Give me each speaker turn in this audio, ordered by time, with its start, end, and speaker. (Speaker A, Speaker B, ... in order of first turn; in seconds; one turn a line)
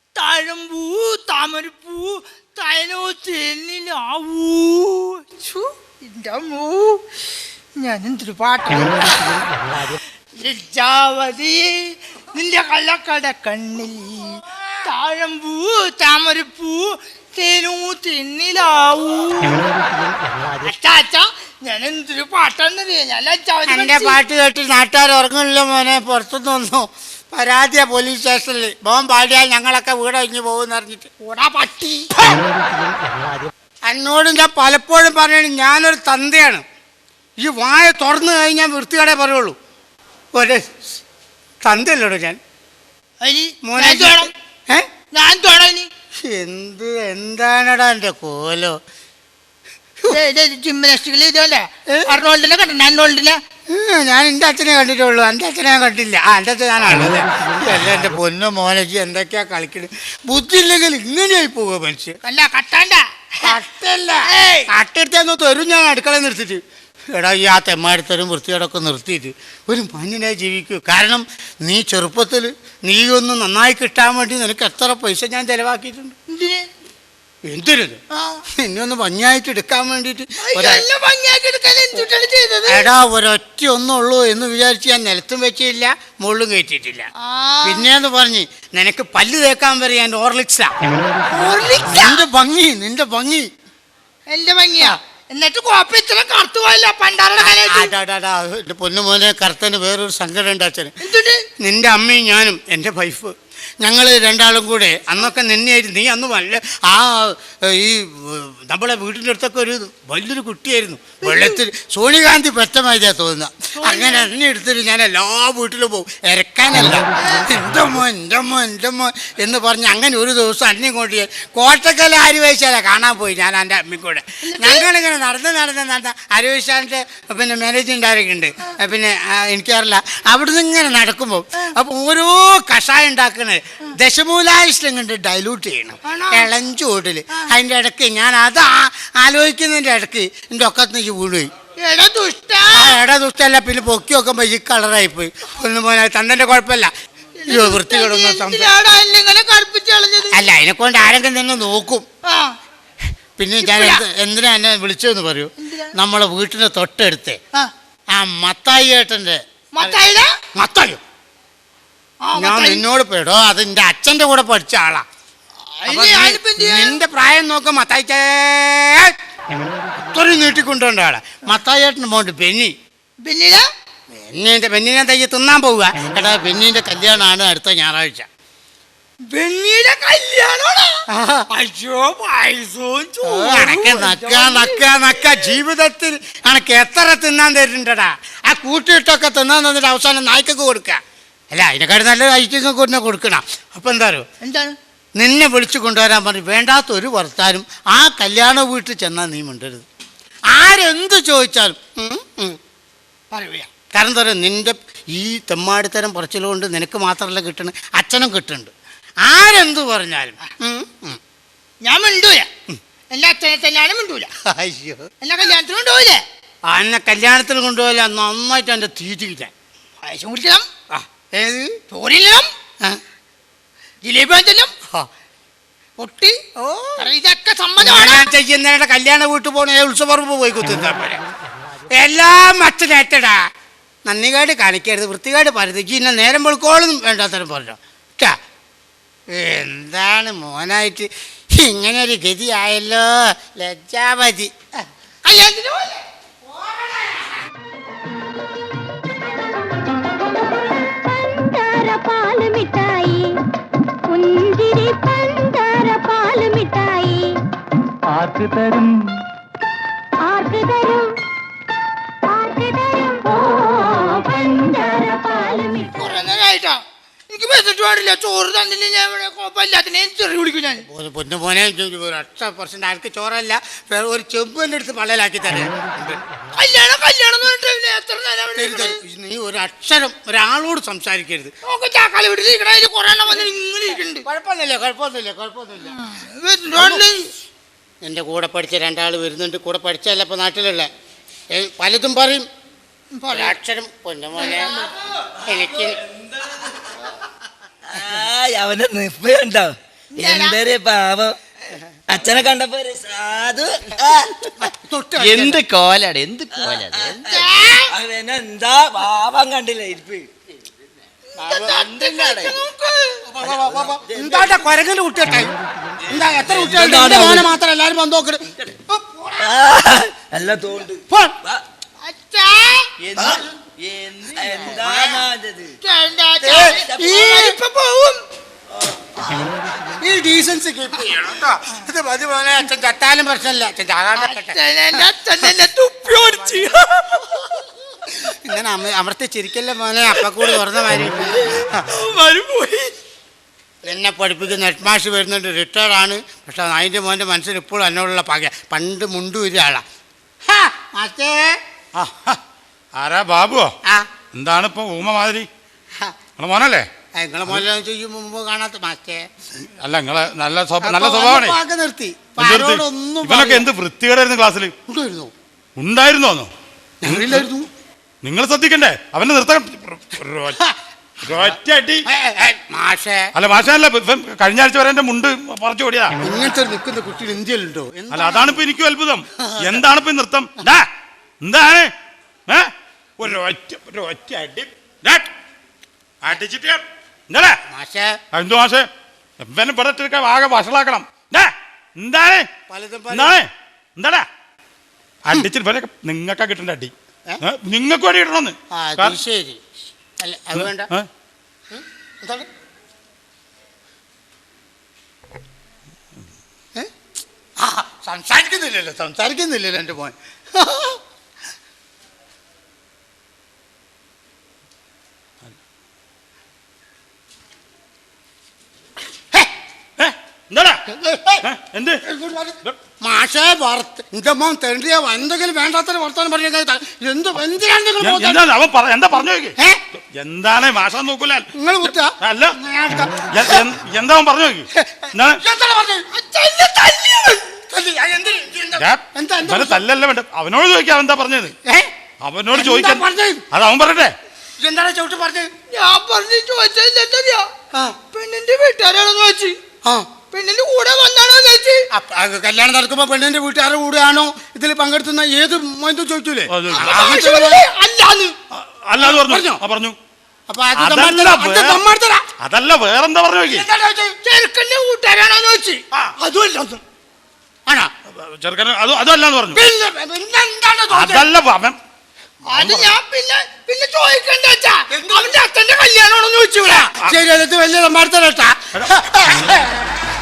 Speaker A: 0.2-7.0
Speaker A: 7.8-19.7
Speaker A: 20.6-24.2
Speaker B: 23.7-31.1
Speaker A: 31.2-32.4
Speaker B: 33.9-36.6
Speaker B: 37.4-39.6
Speaker B: 40.4-40.7
Speaker B: 41.6-42.4
Speaker A: 43.2-44.3
Speaker B: 43.6-44.9
Speaker A: 45.1-45.9
Speaker B: 46.2-48.8
Speaker A: 50.1-53.4
Speaker B: 53.7-62.2
Speaker A: 62.2-63.5
Speaker B: 63.4-66.6
Speaker A: 64.3-64.7
Speaker B: 67.1-76.2
Speaker A: 76.3-76.7
Speaker B: 77.5-78.0
Speaker A: 78.1-78.4
Speaker B: 78.5-80.8
Speaker A: 80.4-82.9
Speaker B: 82.7-87.1
Speaker A: 87.2-87.9
Speaker B: 87.6-90.8
Speaker A: 91.3-92.2
Speaker B: 91.9-93.5
Speaker A: 94.3-97.9
Speaker B: 97.4-101.0
Speaker A: 101.0-101.4
Speaker B: 101.6-141.5
Speaker A: 111.2-111.6
Speaker A: 113.8-114.3
Speaker A: 117.2-117.5
Speaker A: 124.4-124.9
Speaker A: 136.0-136.5
Speaker A: 141.8-143.0
Speaker B: 142.7-146.9
Speaker A: 147.4-150.4
Speaker B: 147.5-148.7
Speaker B: 150.3-152.1
Speaker A: 152.3-152.5
Speaker B: 153.4-157.4
Speaker A: 153.6-154.0
Speaker A: 155.6-155.9
Speaker B: 158.2-160.0
Speaker A: 159.8-160.3
Speaker B: 160.6-161.0
Speaker A: 162.2-162.8
Speaker B: 162.4-165.1
Speaker A: 165.7-167.0
Speaker B: 165.9-169.1
Speaker B: 170.0-172.7
Speaker A: 173.2-173.6
Speaker B: 174.1-178.3
Speaker A: 179.3-181.0
Speaker B: 181.1-181.5
Speaker A: 181.5-185.5
Speaker B: 183.2-194.3
Speaker A: 194.4-194.7
Speaker B: 195.2-199.8
Speaker B: 200.5-202.6
Speaker A: 203.3-203.7
Speaker B: 203.9-208.7
Speaker B: 209.2-211.2
Speaker A: 211.8-212.5
Speaker A: 213.1-214.3
Speaker B: 214.5-215.1
Speaker A: 215.2-216.2
Speaker B: 216.7-219.5
Speaker A: 220.0-220.7
Speaker B: 220.9-221.7
Speaker A: 221.9-222.5
Speaker A: 224.0-224.7
Speaker A: 226.0-226.4
Speaker B: 226.6-227.1
Speaker A: 227.0-228.3
Speaker B: 227.8-231.2
Speaker B: 231.9-233.4
Speaker B: 234.1-238.3
Speaker B: 239.3-244.5
Speaker A: 245.2-246.0
Speaker C: 251.1-253.3
Speaker C: 254.1-257.3
Speaker C: 260.2-261.1
Speaker C: 262.3-265.8
Speaker A: 265.8-270.9
Speaker B: 270.9-276.2
Speaker A: 276.6-279.0
Speaker B: 278.6-281.5
Speaker A: 281.6-284.3
Speaker B: 284.2-286.0
Speaker A: 285.9-287.3
Speaker B: 286.8-287.1
Speaker B: 288.0-290.9
Speaker B: 291.5-292.5
Speaker A: 293.2-293.6
Speaker B: 293.3-294.7
Speaker A: 294.4-294.8
Speaker B: 295.4-296.0
Speaker D: 297.9-301.4
Speaker A: 300.2-300.6
Speaker D: 302.1-304.6
Speaker B: 304.6-305.6
Speaker D: 305.2-307.4
Speaker A: 307.2-307.9
Speaker D: 307.9-310.3
Speaker A: 311.4-313.2
Speaker D: 311.4-312.6
Speaker B: 313.3-315.6
Speaker D: 313.4-314.8
Speaker B: 316.1-319.5
Speaker D: 316.1-317.5
Speaker D: 319.4-321.6
Speaker B: 321.1-321.3
Speaker A: 322.0-322.9
Speaker D: 323.0-325.8
Speaker A: 325.8-328.2
Speaker B: 326.4-327.6
Speaker D: 326.5-327.2
Speaker B: 329.8-335.5
Speaker A: 334.2-337.4
Speaker B: 336.1-336.7
Speaker B: 338.1-341.8
Speaker A: 342.0-342.9
Speaker B: 343.9-349.8
Speaker B: 350.5-351.6
Speaker E: 351.9-352.4
Speaker E: 352.9-353.7
Speaker E: 354.3-355.5
Speaker E: 356.4-356.9
Speaker B: 357.2-359.2
Speaker E: 359.8-361.6
Speaker B: 360.8-363.7
Speaker E: 362.4-364.7
Speaker B: 364.9-365.3
Speaker E: 365.8-366.5
Speaker B: 367.0-367.7
Speaker E: 367.1-367.5
Speaker E: 368.2-370.6
Speaker E: 371.2-372.1
Speaker B: 372.1-373.3
Speaker E: 373.4-376.2
Speaker B: 376.2-378.6
Speaker E: 378.1-380.9
Speaker B: 379.4-379.8
Speaker E: 381.4-381.9
Speaker E: 382.5-385.3
Speaker E: 386.2-387.6
Speaker B: 387.7-388.2
Speaker E: 388.3-388.9
Speaker E: 389.4-392.5
Speaker B: 392.7-393.4
Speaker E: 393.1-394.3
Speaker E: 395.2-399.2
Speaker B: 398.7-399.6
Speaker B: 400.2-400.9
Speaker E: 400.6-401.1
Speaker B: 401.7-402.5
Speaker B: 407.6-411.0
Speaker E: 420.0-420.9
Speaker B: 420.9-421.4
Speaker E: 421.4-422.0
Speaker B: 422.0-428.4
Speaker E: 428.0-429.6
Speaker E: 430.1-431.6
Speaker B: 431.6-433.7
Speaker E: 432.2-432.6
Speaker E: 433.3-435.4
Speaker B: 434.7-436.1
Speaker A: 436.1-437.6
Speaker B: 437.7-439.8
Speaker E: 438.8-441.6
Speaker B: 441.6-441.9
Speaker E: 442.2-444.1
Speaker B: 442.5-443.4
Speaker B: 444.6-445.5
Speaker A: 445.7-447.5
Speaker A: 448.1-449.6
Speaker A: 450.3-451.9
Speaker B: 451.9-457.6
Speaker E: 456.5-457.1
Speaker A: 456.7-458.4
Speaker E: 458.5-460.0
Speaker B: 459.0-459.6
Speaker B: 460.5-462.2
Speaker E: 460.7-461.8
Speaker E: 462.4-463.7
Speaker B: 463.5-464.2
Speaker A: 464.2-465.8
Speaker B: 466.2-466.8
Speaker E: 468.1-469.6
Speaker B: 469.5-471.3
Speaker E: 470.9-471.8
Speaker A: 472.5-476.9
Speaker E: 472.5-472.9
Speaker B: 474.9-475.4
Speaker B: 476.6-479.8
Speaker E: 478.7-479.5